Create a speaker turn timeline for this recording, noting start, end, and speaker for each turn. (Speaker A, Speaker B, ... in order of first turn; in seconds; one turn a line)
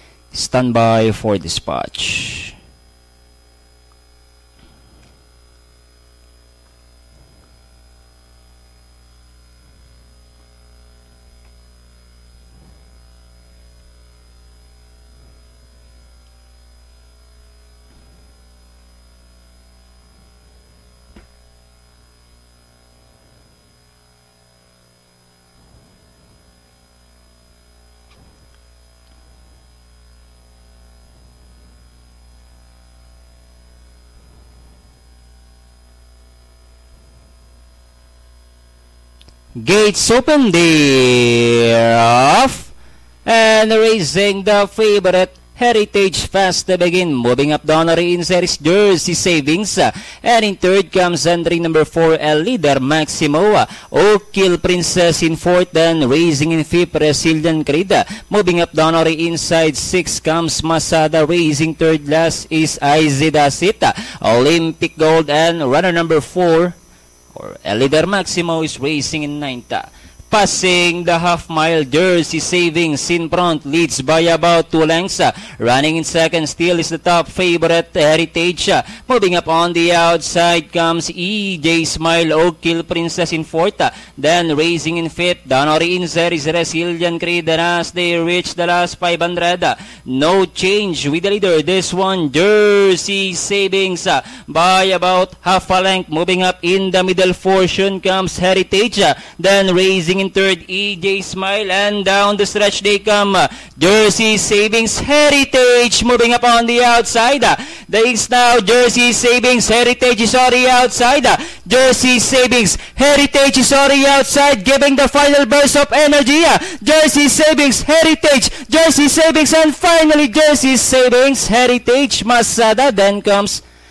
Speaker A: 0.3-2.5
Speaker A: 39.6-42.7
Speaker A: 43.2-66.8
Speaker A: 67.3-123.6